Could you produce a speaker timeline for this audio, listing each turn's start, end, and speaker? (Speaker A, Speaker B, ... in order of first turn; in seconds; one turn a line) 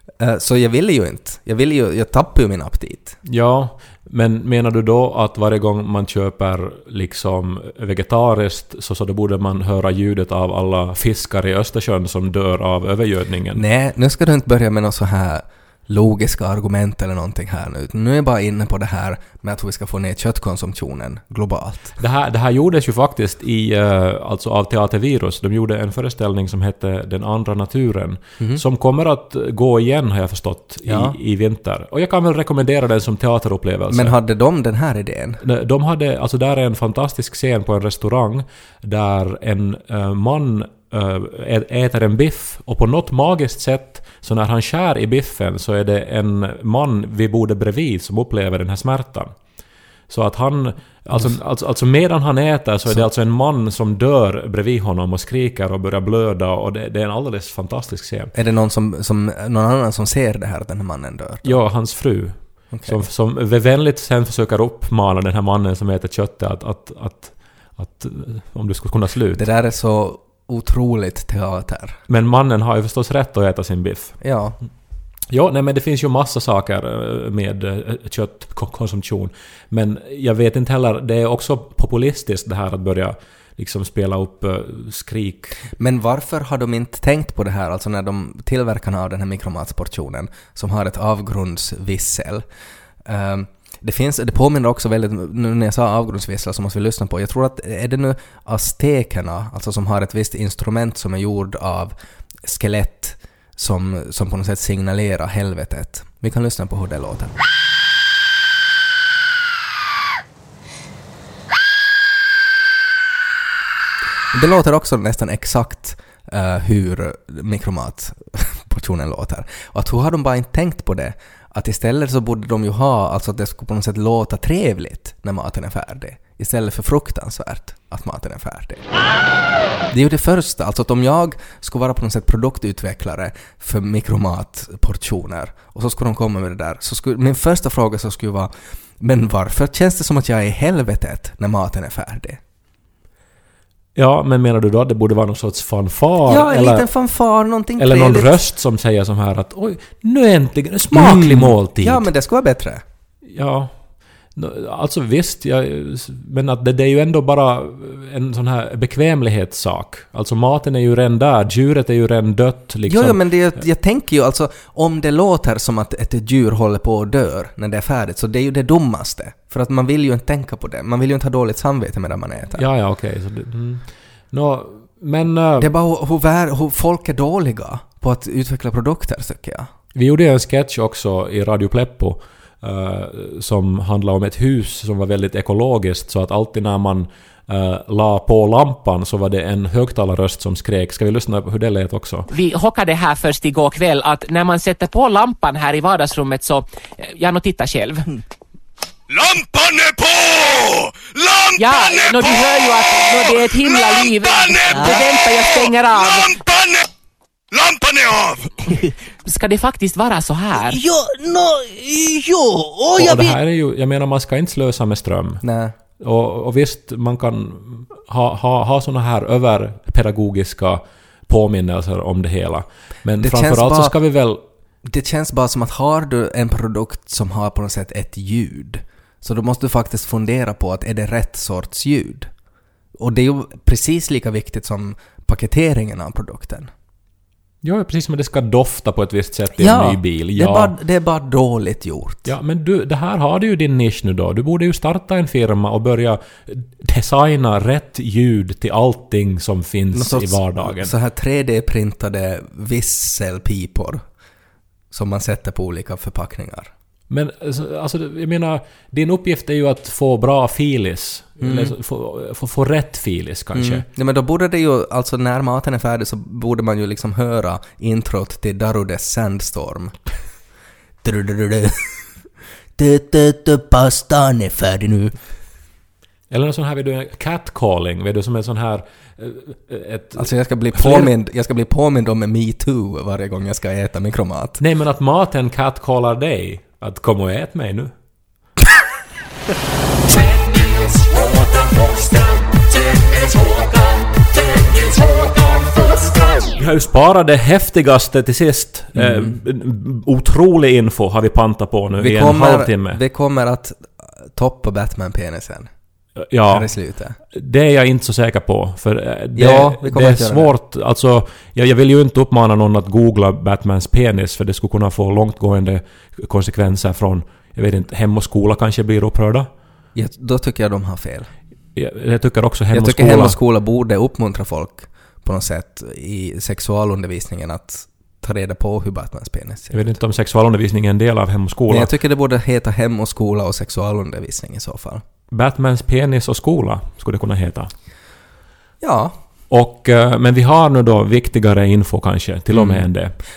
Speaker A: 0.2-3.2
Speaker B: 3.2-13.6
Speaker A: 13.5-21.9
Speaker B: 22.0-34.1
Speaker A: 30.8-31.1
Speaker A: 33.9-35.4
Speaker B: 35.4-49.4
Speaker B: 50.1-58.3
Speaker A: 58.3-61.6
Speaker B: 61.4-69.4
Speaker A: 62.7-63.0
Speaker A: 69.3-72.0
Speaker B: 72.1-74.2
Speaker A: 74.2-74.6
Speaker B: 75.3-85.5
Speaker A: 85.8-92.4
Speaker A: 93.0-107.3
Speaker A: 114.3-128.8
Speaker A: 129.9-142.4
Speaker B: 143.9-146.9
Speaker A: 146.3-148.4
Speaker B: 147.8-152.1
Speaker A: 150.9-152.8
Speaker B: 153.2-153.8
Speaker B: 154.3-163.2
Speaker A: 162.9-172.6
Speaker B: 172.6-175.7
Speaker A: 175.6-179.7
Speaker B: 179.9-192.3
Speaker C: 192.3-198.1
Speaker D: 199.1-206.9
Speaker C: 201.6-206.4
Speaker E: 204.7-205.1
Speaker D: 207.5-208.7
Speaker C: 209.2-210.8
Speaker E: 210.5-213.3
Speaker B: 212.9-215.4
Speaker A: 215.4-215.7
Speaker B: 216.0-224.4
Speaker A: 223.2-223.9
Speaker A: 224.8-232.3
Speaker A: 233.0-236.7
Speaker B: 237.6-240.7
Speaker A: 239.6-242.3
Speaker B: 242.2-250.9
Speaker A: 249.9-254.0
Speaker A: 254.9-256.7
Speaker B: 257.1-263.9
Speaker A: 261.4-261.8
Speaker A: 263.5-269.9
Speaker A: 271.0-271.9
Speaker A: 272.8-275.1
Speaker B: 276.3-281.1
Speaker A: 280.1-284.6
Speaker B: 284.6-287.9
Speaker C: 291.6-293.0
Speaker B: 296.5-303.0
Speaker A: 298.9-299.4
Speaker A: 302.0-305.7
Speaker B: 306.2-306.7
Speaker A: 306.4-307.2
Speaker B: 307.3-319.5
Speaker A: 309.3-310.5
Speaker A: 319.9-321.3
Speaker B: 321.7-323.4
Speaker A: 322.7-329.8
Speaker B: 329.7-331.9
Speaker A: 331.7-335.0
Speaker B: 335.3-337.7
Speaker A: 338.8-339.1
Speaker B: 339.5-343.1
Speaker A: 342.5-342.9